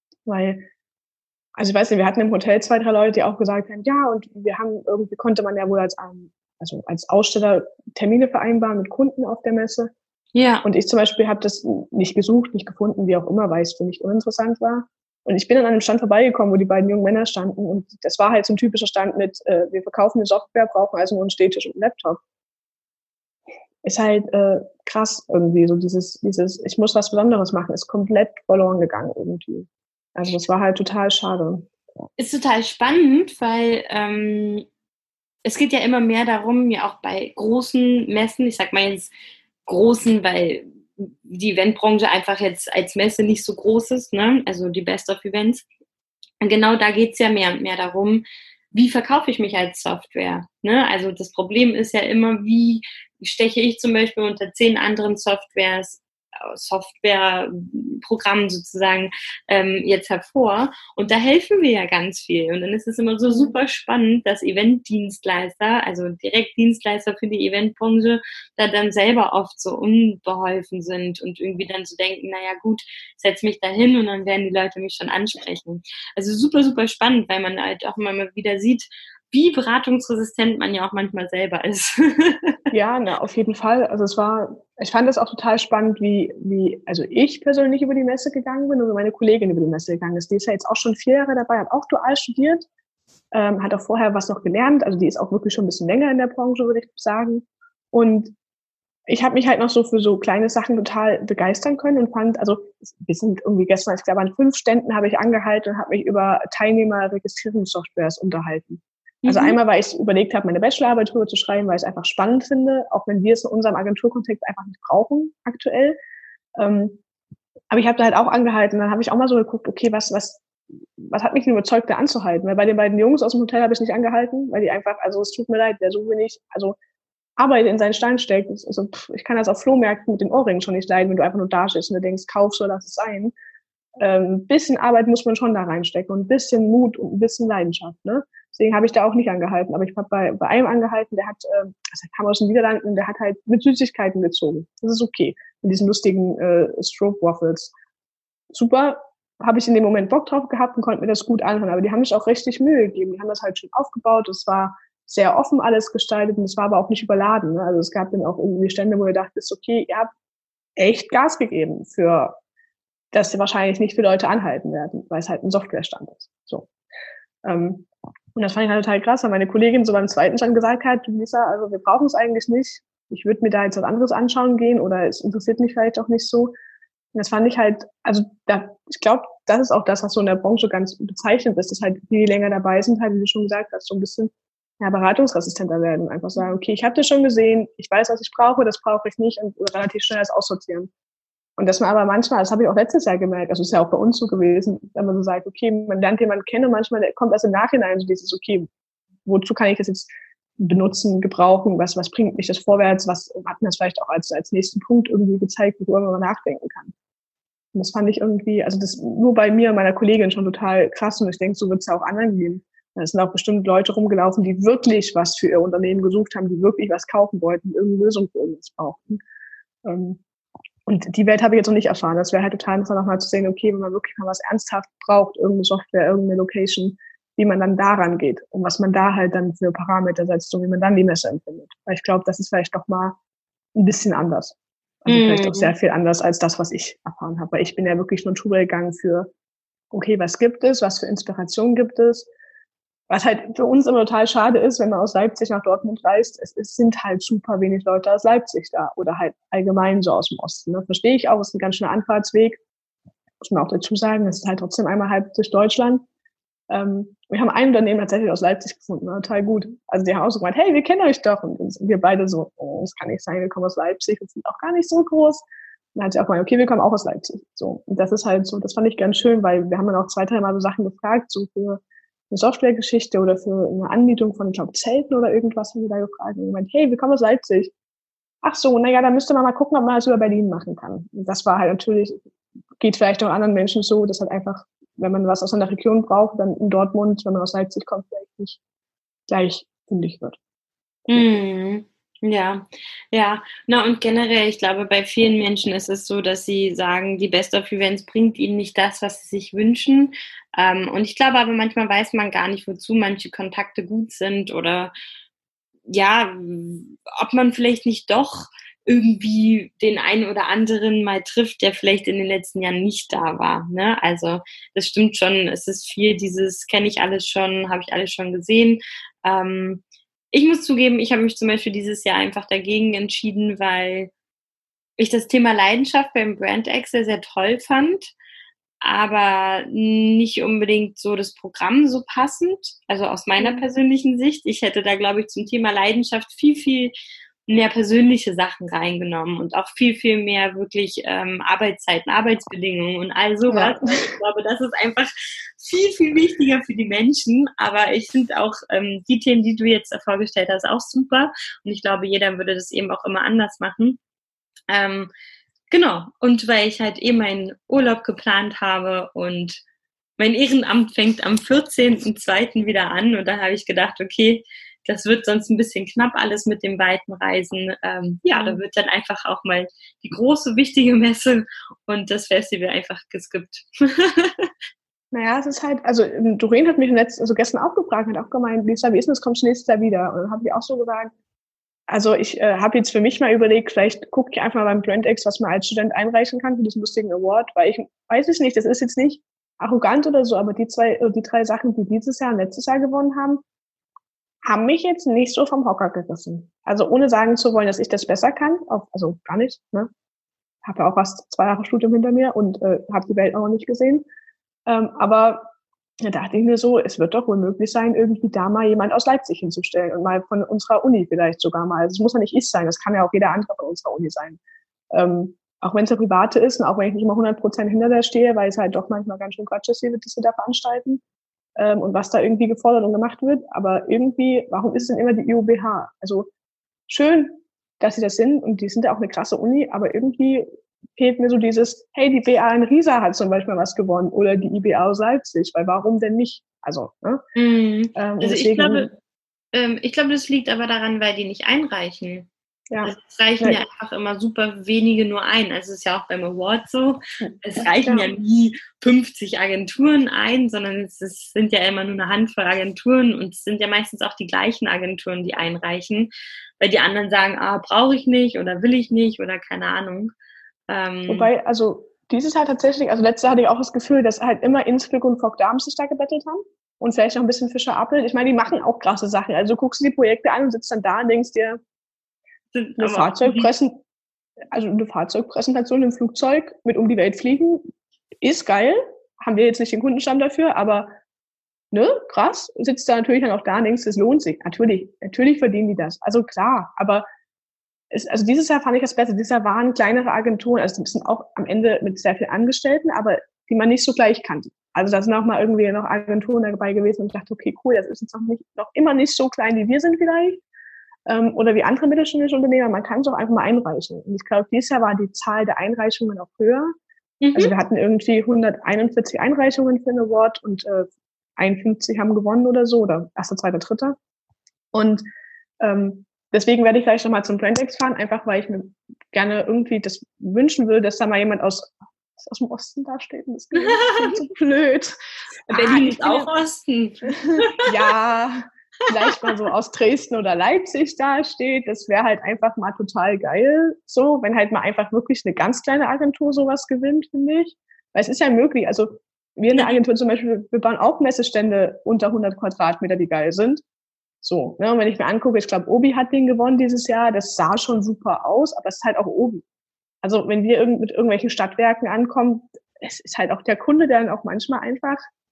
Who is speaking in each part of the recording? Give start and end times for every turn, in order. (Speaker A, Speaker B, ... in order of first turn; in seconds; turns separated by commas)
Speaker A: 0.3-0.6, Speaker A: 1.6-9.9, Speaker B: 10.3-10.7, Speaker A: 10.6-22.2, Speaker A: 23.8-31.7, Speaker B: 32.2-34.7, Speaker B: 35.5-39.1, Speaker B: 39.7-45.6, Speaker B: 46.4-82.6, Speaker A: 63.3-63.5, Speaker A: 82.7-92.7, Speaker A: 93.3-98.3, Speaker A: 99.1-116.0, Speaker B: 109.2-109.6, Speaker A: 116.6-117.0, Speaker A: 117.7-120.4, Speaker A: 121.0-126.8, Speaker A: 127.4-133.3, Speaker A: 134.0-147.7, Speaker A: 148.5-160.1, Speaker A: 160.8-162.4, Speaker A: 163.1-166.7, Speaker A: 167.4-176.5, Speaker A: 177.2-190.9, Speaker A: 191.6-198.7, Speaker A: 199.3-206.9, Speaker A: 207.7-219.2, Speaker A: 219.8-220.2, Speaker A: 220.9-233.2, Speaker A: 233.8-239.3, Speaker B: 235.1-235.7, Speaker A: 239.9-242.3, Speaker A: 243.1-252.6, Speaker A: 253.4-256.1, Speaker A: 256.7-277.7, Speaker A: 278.4-282.2, Speaker A: 282.8-288.6, Speaker A: 289.3-290.4, Speaker B: 291.1-304.9, Speaker B: 305.9-324.1, Speaker B: 325.0-328.1, Speaker B: 328.8-336.9, Speaker A: 333.4-333.6, Speaker B: 337.5-354.0, Speaker A: 343.5-344.2, Speaker B: 354.7-355.1, Speaker B: 355.7-359.6, Speaker B: 360.2-374.5, Speaker A: 368.3-368.6, Speaker A: 375.1-381.1, Speaker A: 381.9-393.4, Speaker A: 394.4-399.9, Speaker A: 400.6-404.1, Speaker A: 404.7-405.5, Speaker A: 406.0-414.4, Speaker A: 414.9-421.0, Speaker A: 421.6-426.3, Speaker A: 426.9-437.2, Speaker B: 437.4-438.9, Speaker A: 437.9-438.9, Speaker B: 439.5-442.3, Speaker A: 442.7-443.6, Speaker B: 442.8-460.1, Speaker A: 447.2-448.1, Speaker B: 460.7-461.3, Speaker A: 461.1-471.6, Speaker B: 472.5-473.5, Speaker A: 472.8-473.8, Speaker A: 474.5-477.6, Speaker A: 478.2-480.9, Speaker A: 481.7-487.1, Speaker A: 487.9-500.4, Speaker A: 501.1-506.7, Speaker B: 507.2-507.6, Speaker A: 507.3-514.0, Speaker A: 514.7-515.0, Speaker A: 515.6-525.0, Speaker B: 523.6-524.2, Speaker A: 525.5-526.3, Speaker B: 525.5-527.7, Speaker A: 527.1-543.6, Speaker B: 528.9-529.3, Speaker A: 544.2-549.5, Speaker A: 550.0-555.0